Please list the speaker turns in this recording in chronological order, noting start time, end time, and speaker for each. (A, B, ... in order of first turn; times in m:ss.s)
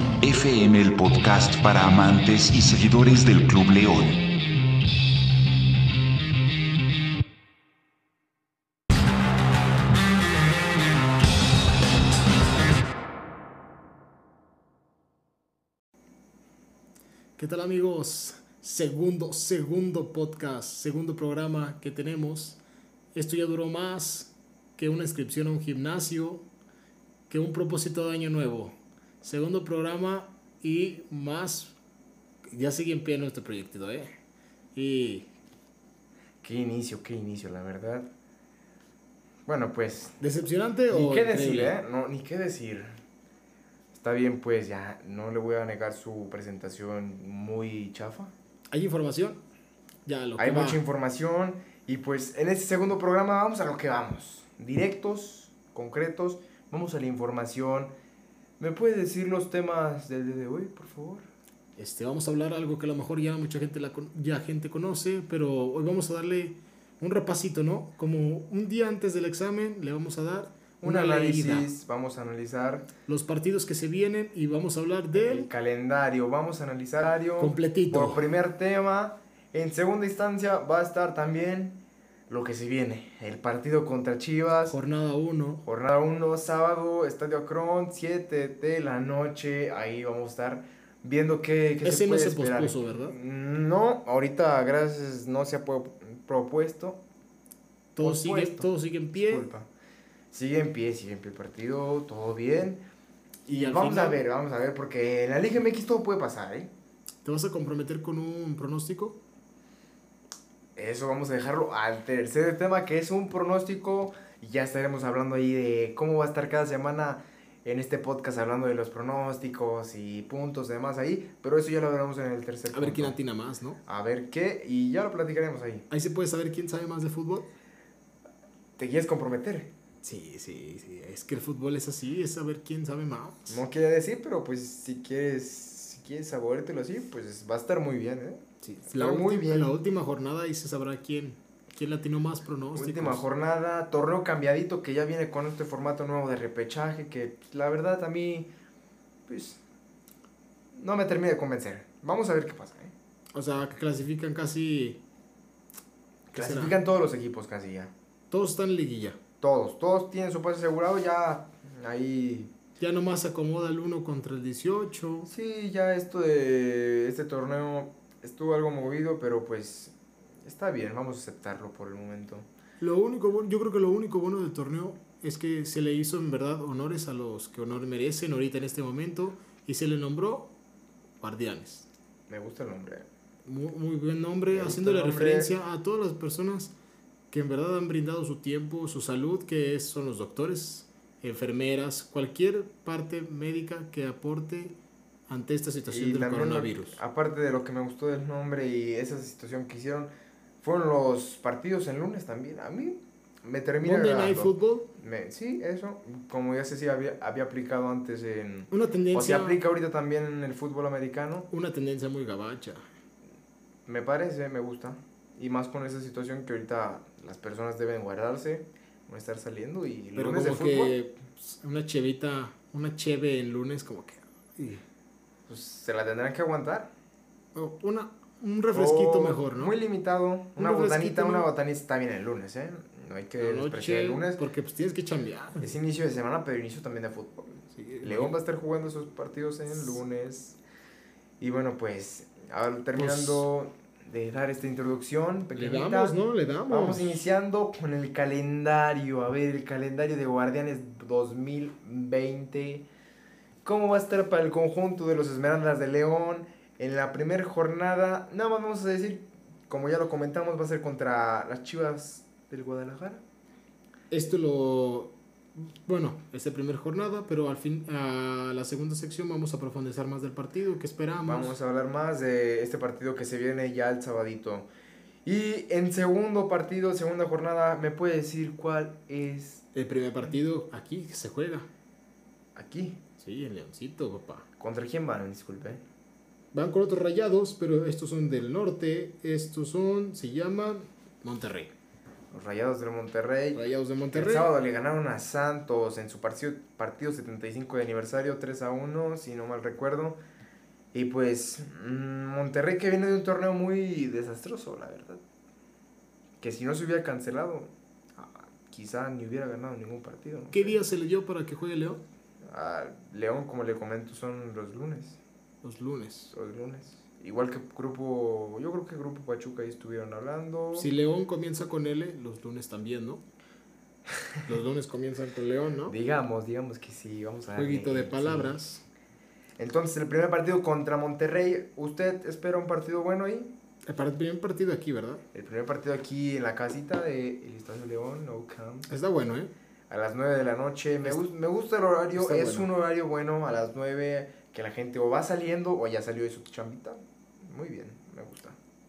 0:00.2-0:04.2 A
0:17.4-0:22.6 B
0:23.1-0:26.4 B
0:27.3-0:31.7 B
0:32.5-0:34.1 B
0:34.7-0:35.3 B
0:36.4-0:38.1 C
0:39.5-0:40.2 C
0:40.2-0:41.8 B
0:40.9-0:43.0 C
0:43.9-0:48.3 C
0:48.7-0:49.4 B
0:50.0-0:50.8 B
0:50.4-0:57.9 C
0:58.6-1:01.3 C
1:01.8-1:11.7 B
1:10.8-1:12.9 C
1:13.0-1:15.5 B
1:15.1-1:21.8 C
1:17.4-1:18.2 B
1:22.3-1:24.8 C
1:24.7-1:25.6 B
1:25.6-1:37.0 C
1:31.8-1:33.1 B
1:37.9-1:39.5 B
1:38.0-1:39.7 C
1:40.3-1:42.8 C
1:43.4-1:46.7 C
1:43.5-1:44.2 B
1:47.2-1:49.2 B
1:50.8-2:03.2 C
2:02.7-2:03.8 B
2:03.8-2:05.8 C
2:05.9-2:07.5 B
2:08.8-2:09.7 C
2:10.0-2:13.6 B
2:13.5-2:19.7 C
2:18.6-2:23.2 B
2:22.7-2:28.5 C
2:29.3-2:29.6 C
2:30.7-2:32.9 C
2:33.3-2:35.0 B
2:36.3-2:37.9 C
2:36.3-2:36.8 B
2:38.3-2:39.2 B
2:39.4-2:42.5 C
2:42.8-2:45.3 B
2:45.3-2:52.5 C
2:52.8-3:00.5 B
3:01.2-3:01.9 B
3:02.3-3:03.1 C
3:03.4-3:06.7 B
3:04.5-3:05.5 C
3:07.3-3:14.7 B
3:15.3-3:17.0 B
3:15.9-3:20.1 C
3:20.6-3:31.5 C
3:23.8-3:24.9 B
3:28.7-3:29.6 B
3:31.5-3:32.8 B
3:33.9-3:41.0 C
3:40.1-3:44.8 B
3:45.5-3:46.9 C
3:47.5-3:49.8 B
3:48.7-3:54.4 C
3:50.6-3:51.5 B
3:53.4-3:55.7 B
3:55.6-4:00.6 C
3:57.7-3:58.4 B
4:01.4-4:06.2 C
4:03.0-4:03.5 B
4:05.5-4:07.2 B
4:06.7-4:12.8 C
4:13.6-4:23.2 C
4:24.1-4:31.6 B
4:31.2-4:34.7 C
4:35.2-4:39.7 C
4:39.7-4:41.7 B
4:42.6-4:43.0 C
4:43.2-4:44.4 B
4:44.6-4:45.8 C
4:46.5-4:51.7 B
4:52.3-5:00.2 C
4:53.5-4:54.5 B
5:00.9-5:05.2 C
5:06.4-5:10.8 C
5:10.5-5:12.0 B
5:12.4-5:15.2 C
5:15.6-5:16.3 B
5:16.3-5:20.9 C
5:20.7-5:23.2 B
5:24.4-5:26.0 B
5:25.9-5:28.6 C
5:27.5-5:28.8 B
5:29.6-5:33.5 C
5:33.8-5:35.2 B
5:35.3-5:38.9 C
5:38.9-5:39.5 B
5:39.9-5:48.6 C
5:42.2-5:42.7 B